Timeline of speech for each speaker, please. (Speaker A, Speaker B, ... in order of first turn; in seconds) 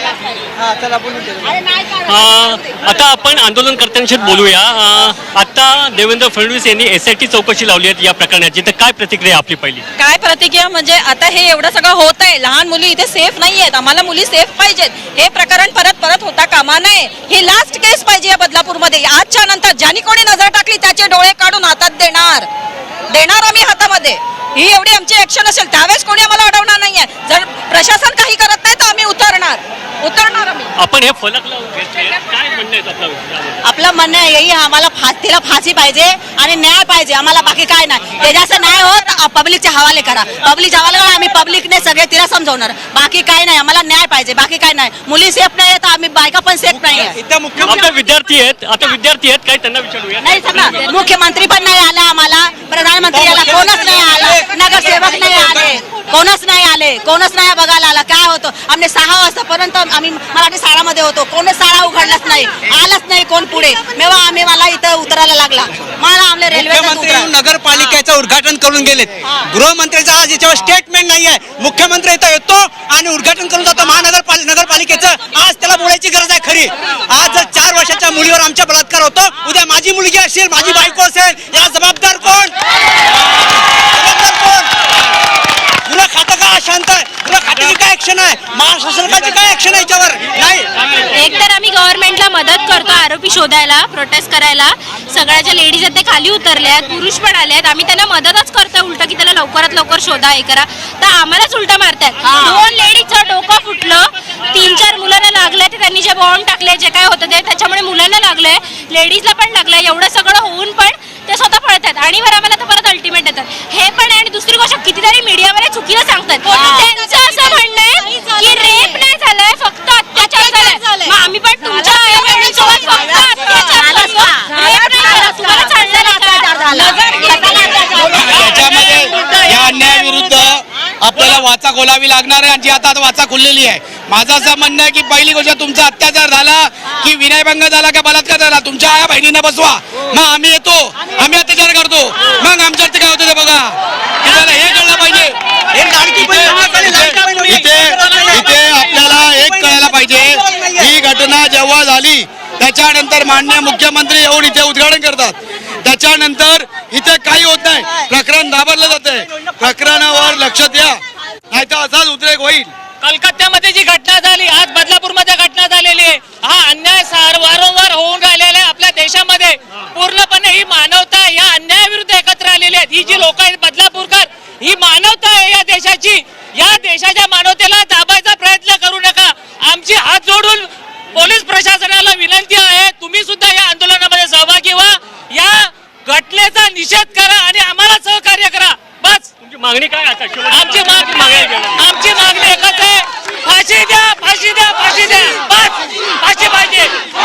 Speaker A: 2.1-9.8, 30.8-33.5, 47.6-50.8, 189.4-191.8
Speaker B: 10.0-22.5, 23.1-30.7
Speaker C: 33.6-47.1, 50.2-67.3, 102.2-102.6, 116.4-116.9, 123.0-128.2
Speaker D: 46.7-48.0, 53.1-55.8, 66.5-82.5, 83.9-84.7, 85.8-90.7, 145.7-150.9, 159.4-159.7
Speaker E: 91.1-128.5
Speaker F: 128.2-145.3, 146.1-161.0, 161.5-162.7
Speaker G: 128.5-130.2, 163.0-189.3, 190.5-196.9